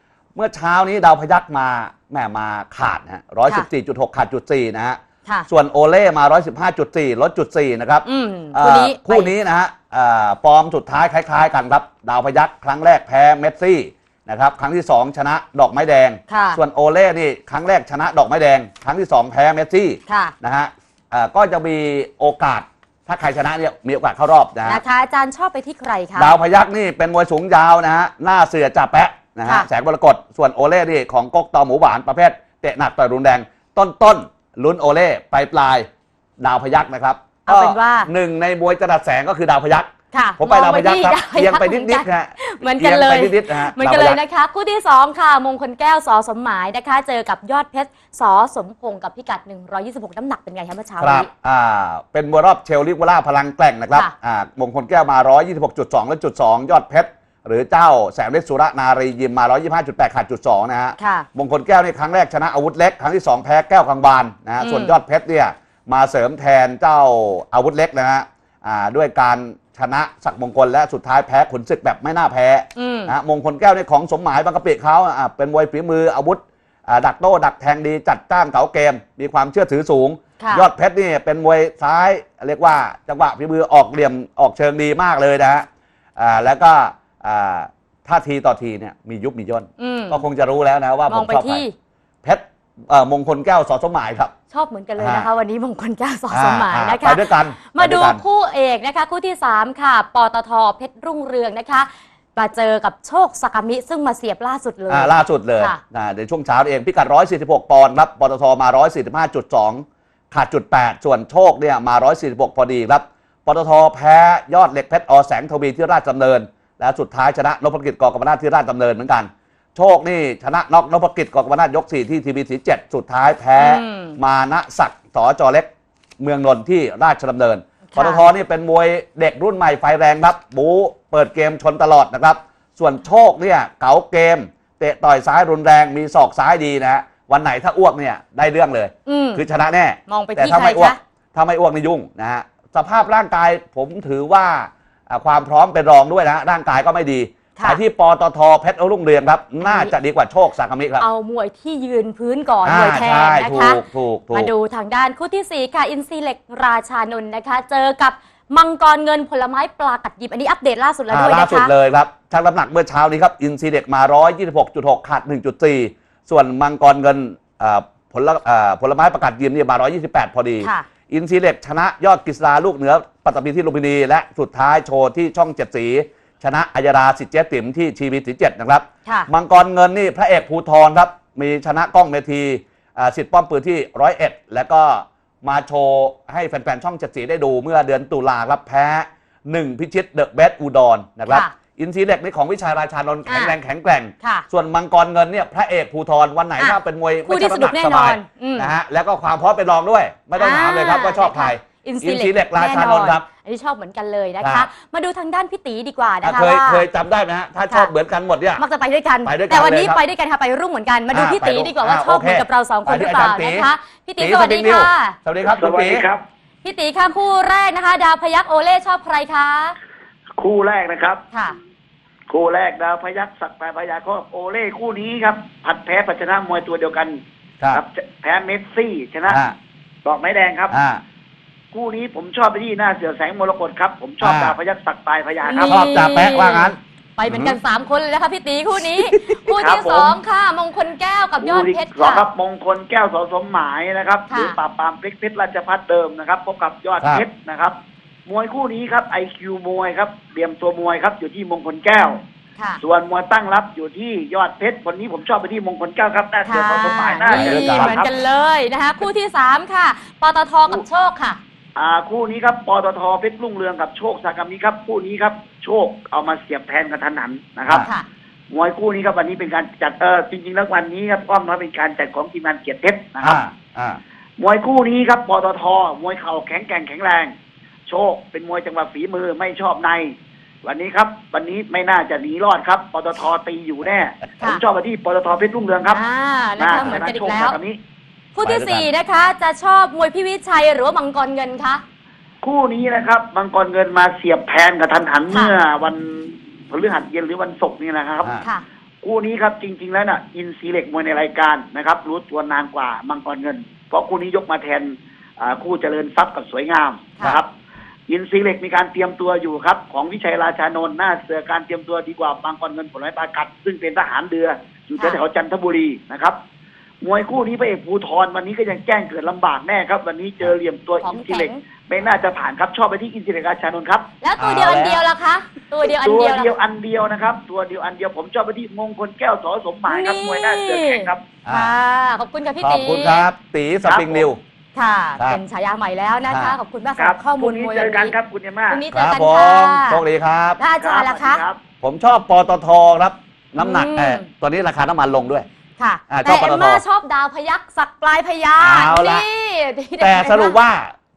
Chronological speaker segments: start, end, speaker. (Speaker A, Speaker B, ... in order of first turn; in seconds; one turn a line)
Speaker A: 0.3-24.8
Speaker B: 8.0-9.3
Speaker B: 16.3-16.6
Speaker B: 20.1-20.3
Speaker B: 24.6-26.3
Speaker A: 26.1-35.9
Speaker A: 36.4-44.2
Speaker B: 37.5-38.1
Speaker B: 40.1-51.3
Speaker A: 51.0-91.6
Speaker B: 61.0-61.3
Speaker B: 64.6-65.0
Speaker B: 72.8-73.1
Speaker B: 80.4-80.7
Speaker B: 89.8-90.2
Speaker B: 91.1-91.7
Speaker A: 92.2-94.3
Speaker B: 94.5-105.8
Speaker A: 95.0-95.3
Speaker A: 96.3-98.2
Speaker A: 104.9-125.7
Speaker B: 123.6-124.2
Speaker A: 126.2-151.0
Speaker B: 127.9-128.3
Speaker B: 139.1-139.4
Speaker B: 140.1-141.0
Speaker B: 147.6-147.8
Speaker B: 149.6-149.9
Speaker B: 151.0-153.8
Speaker A: 152.6-154.5
Speaker B: 154.3-161.7
Speaker A: 161.1-203.2
Speaker B: 170.6-170.9
Speaker B: 179.0-179.3
Speaker B: 191.3-191.5
Speaker B: 193.2-193.5
Speaker B: 194.2-194.4
Speaker B: 196.6-198.7
Speaker B: 200.4-206.8
Speaker A: 204.4-204.7
Speaker A: 206.2-208.6
Speaker B: 208.6-215.2
Speaker A: 209.2-210.0
Speaker A: 211.1-216.1
Speaker C: 215.4-216.2
Speaker B: 216.6-219.8
Speaker C: 220.4-221.2
Speaker B: 221.3-221.6
Speaker C: 222.3-227.2
Speaker C: 227.7-229.4
Speaker A: 229.3-229.6
Speaker C: 230.0-230.8
Speaker A: 230.7-231.0
Speaker C: 231.7-235.8
Speaker A: 234.2-234.6
Speaker B: 235.4-242.3
Speaker A: 235.7-237.6
Speaker A: 239.1-239.5
Speaker C: 239.6-240.2
Speaker C: 241.4-247.8
Speaker B: 244.3-244.6
Speaker C: 248.3-252.2
Speaker B: 252.6-252.8
Speaker C: 252.8-258.1
Speaker B: 256.4-261.4
Speaker A: 257.3-258.0
Speaker C: 261.8-267.9
Speaker B: 267.8-268.1
Speaker C: 268.5-273.4
Speaker A: 273.2-274.0
Speaker C: 274.4-277.3
Speaker C: 277.9-286.0
Speaker B: 285.9-287.6
Speaker C: 286.6-287.8
Speaker B: 288.3-291.8
Speaker A: 288.4-288.9
Speaker C: 292.4-298.4
Speaker C: 299.0-307.5
Speaker C: 308.1-316.4
Speaker C: 317.0-324.1
Speaker B: 321.0-321.6
Speaker B: 324.2-326.5
Speaker A: 324.4-325.0
Speaker C: 325.8-331.2
Speaker B: 329.9-333.3
Speaker A: 331.4-331.7
Speaker A: 332.6-334.4
Speaker C: 333.8-334.3
Speaker B: 334.7-338.1
Speaker A: 336.3-336.6
Speaker C: 337.0-338.8
Speaker B: 338.7-340.0
Speaker A: 338.9-340.6
Speaker B: 340.6-341.4
Speaker C: 340.8-341.6
Speaker A: 341.8-345.5
Speaker B: 343.6-344.3
Speaker B: 345.8-350.6
Speaker A: 346.1-346.8
Speaker A: 348.6-349.3
Speaker A: 350.0-350.9